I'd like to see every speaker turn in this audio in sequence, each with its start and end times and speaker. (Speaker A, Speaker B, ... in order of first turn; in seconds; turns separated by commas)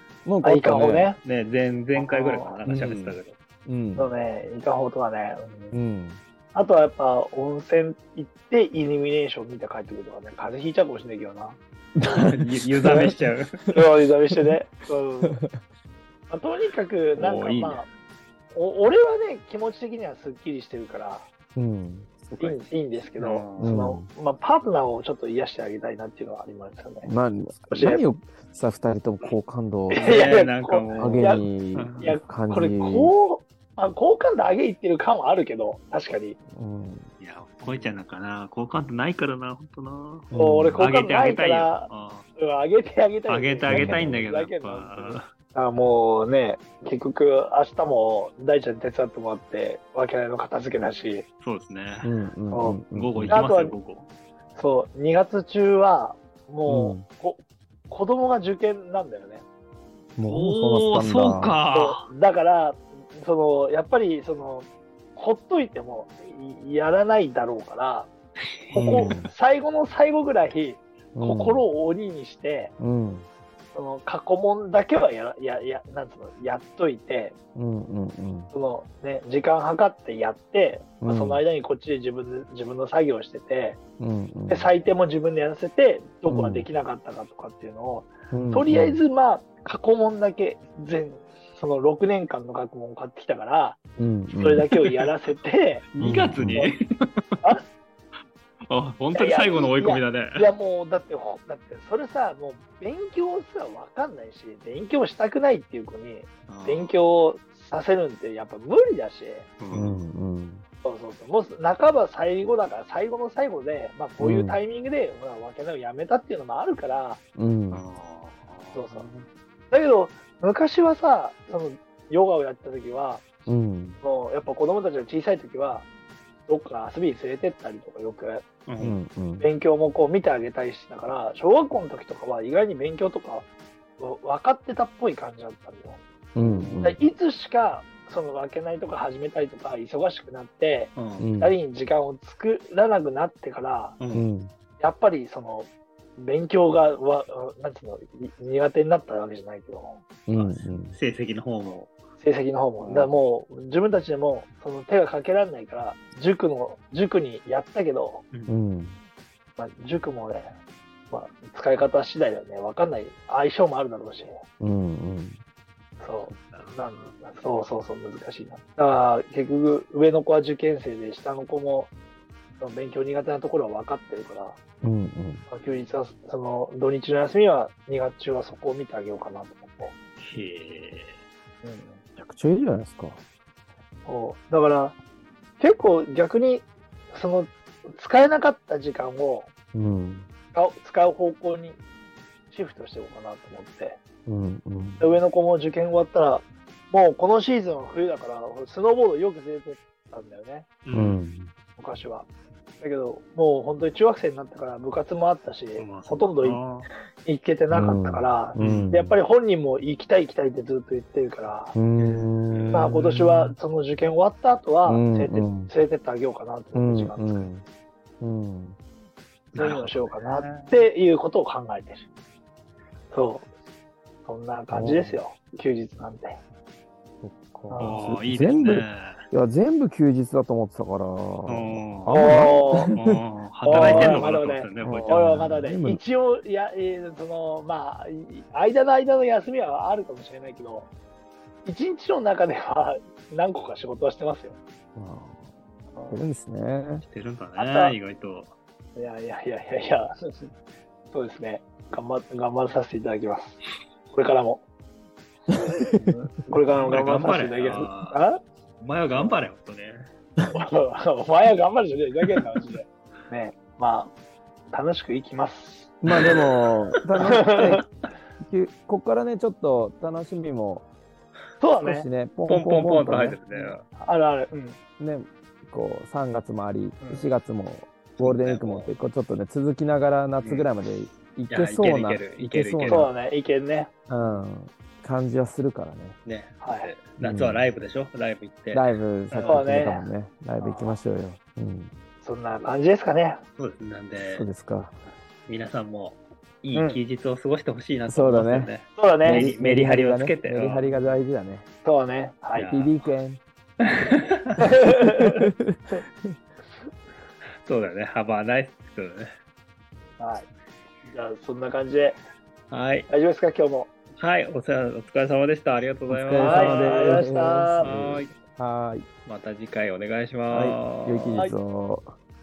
Speaker A: 0.2-1.1, Speaker B: 0.4-1.2, Speaker C: 1.2-3.4, Speaker B: 1.9-2.6, Speaker A: 2.6-4.1, Speaker B: 4.0-5.7, Speaker A: 5.7-6.2, Speaker B: 6.5-11.6, Speaker A: 12.0-14.6, Speaker C: 12.1-13.6, Speaker B: 13.7-15.4, Speaker A: 15.2-15.6, Speaker B: 16.3-17.9, Speaker C: 17.1-17.8, Speaker B: 18.5-21.3, Speaker A: 21.6-22.3, Speaker C: 22.3-23.8, Speaker B: 22.4-27.1, Speaker A: 23.6-24.1, Speaker A: 27.1-30.3, Speaker B: 27.7-28.0, Speaker B: 29.9-31.5, Speaker C: 30.0-32.1, Speaker A: 31.0-33.1, Speaker B: 32.0-36.4, Speaker A: 36.5-37.1, Speaker C: 37.2-42.2, Speaker A: 37.6-37.9, Speaker A: 40.3-40.9, Speaker B: 40.3-51.2, Speaker C: 43.3-45.3, Speaker A: 43.6-44.3, Speaker C: 51.4-52.1, Speaker A: 52.0-53.4, Speaker B: 52.5-53.8, Speaker C: 52.9-54.1, Speaker B: 54.5-59.4, Speaker A: 56.7-57.0, Speaker A: 60.1-61.6, Speaker C: 60.2-62.1, Speaker B: 61.7-68.1, Speaker C: 68.7-69.2, Speaker B: 68.7-72.7, Speaker A: 68.7-69.3, Speaker A: 71.1-71.6, Speaker A: 72.8-73.3, Speaker B: 73.7-77.3, Speaker A: 77.5-78.5, Speaker B: 78.5-83.8, Speaker A: 81.0-81.4, Speaker A: 84.0-84.7, Speaker B: 84.5-93.8, Speaker A: 86.3-86.7, Speaker A: 88.3-89.0, Speaker A: 94.0-94.7, Speaker B: 94.4-95.8, Speaker C: 95.9-96.8, Speaker A: 96.0-96.6, Speaker C: 98.7-100.5, Speaker B: 99.1-109.5, Speaker C: 106.5-106.9, Speaker C: 109.6-110.0, Speaker A: 109.7-110.6, Speaker B: 110.8-117.2, Speaker A: 114.2-114.6, Speaker A: 117.3-117.8, Speaker C: 117.7-119.3, Speaker B: 118.7-119.1, Speaker B: 119.7-123.2, Speaker A: 123.5-124.0, Speaker B: 124.0-125.8, Speaker B: 126.5-128.5, Speaker C: 128.7-129.0, Speaker A: 128.8-129.5, Speaker B: 129.4-133.5, Speaker B: 134.0-136.0, Speaker A: 136.3-137.0, Speaker C: 136.4-137.0, Speaker B: 136.8-144.0, Speaker C: 140.9-141.3, Speaker A: 141.2-141.6, Speaker C: 144.0-144.2, Speaker A: 144.1-144.5, Speaker B: 144.8-150.0, Speaker A: 150.3-150.9, Speaker C: 150.3-151.9, Speaker B: 152.2-158.2, Speaker C: 152.8-153.1, Speaker A: 158.5-159.0, Speaker B: 159.6-160.5, Speaker B: 161.1-164.4, Speaker A: 164.6-165.4, Speaker B: 166.0-171.9, Speaker C: 166.2-167.2, Speaker B: 172.6-174.6, Speaker A: 174.8-175.4, Speaker B: 175.5-179.9, Speaker C: 180.2-181.2, Speaker B: 181.6-182.0, Speaker A: 182.2-183.2, Speaker B: 184.1-184.9, Speaker B: 185.6-189.5, Speaker A: 189.7-190.3, Speaker B: 190.5-191.8, Speaker B: 192.5-194.0, Speaker A: 194.2-195.1, Speaker B: 195.0-200.7, Speaker C: 200.8-201.2, Speaker A: 200.9-201.5, Speaker B: 201.8-202.3, Speaker B: 202.8-206.6, Speaker C: 205.8-206.9, Speaker B: 207.2-211.7, Speaker A: 207.7-209.2, Speaker C: 208.6-208.9, Speaker A: 211.7-213.0, Speaker C: 212.0-213.5, Speaker B: 212.7-217.4, Speaker A: 214.8-215.7, Speaker A: 216.7-217.6, Speaker A: 218.2-218.8, Speaker B: 219.5-222.0, Speaker C: 219.5-220.8, Speaker B: 223.1-223.5, Speaker B: 224.2-226.4, Speaker A: 224.7-225.2, Speaker A: 227.2-233.2, Speaker B: 227.7-228.0, Speaker C: 227.8-229.2, Speaker C: 231.5-232.2, Speaker B: 232.1-232.9, Speaker C: 232.8-235.3, Speaker B: 233.6-240.9, Speaker A: 233.7-234.2, Speaker A: 234.8-236.0, Speaker B: 241.6-244.6, Speaker A: 244.9-245.5, Speaker B: 245.9-246.2, Speaker A: 246.1-247.0, Speaker C: 247.0-248.5, Speaker B: 247.6-247.9, Speaker B: 248.9-250.5, Speaker B: 251.1-254.6, Speaker A: 255.5-256.1, Speaker B: 255.6-258.4, Speaker C: 256.8-258.2, Speaker C: 258.8-260.1, Speaker B: 260.5-264.1, Speaker B: 264.7-265.9, Speaker A: 266.0-270.9, Speaker C: 266.1-266.4, Speaker B: 267.3-267.8, Speaker B: 271.6-272.1, Speaker A: 271.8-273.8, Speaker C: 272.5-273.8, Speaker B: 273.9-274.8, Speaker A: 275.0-283.1, Speaker B: 277.0-277.3, Speaker C: 278.2-278.9, Speaker C: 280.4-280.7, Speaker C: 281.5-283.1, Speaker B: 282.9-283.9, Speaker A: 284.1-286.2, Speaker C: 286.2-289.6, Speaker B: 286.6-286.9, Speaker A: 287.2-287.6, Speaker A: 288.7-291.9, Speaker B: 289.4-290.0, Speaker B: 290.6-291.0, Speaker B: 292.2-293.4, Speaker C: 293.6-294.5, Speaker A: 294.3-294.9, Speaker C: 295.5-301.0, Speaker B: 296.7-297.0, Speaker A: 298.1-298.7, Speaker B: 299.0-299.5, Speaker A: 299.2-301.6, Speaker B: 301.8-302.7, Speaker C: 302.5-303.1, Speaker A: 302.6-303.4, Speaker C: 303.8-304.6, Speaker B: 304.6-306.0, Speaker A: 305.0-305.8, Speaker C: 307.6-309.3, Speaker B: 310.2-310.5, Speaker B: 311.1-312.2, Speaker C: 312.7-313.1, Speaker B: 313.1-313.9, Speaker C: 314.2-317.2, Speaker A: 316.1-319.1, Speaker B: 316.4-317.9, Speaker C: 317.8-318.3, Speaker C: 319.2-321.4, Speaker A: 320.5-322.1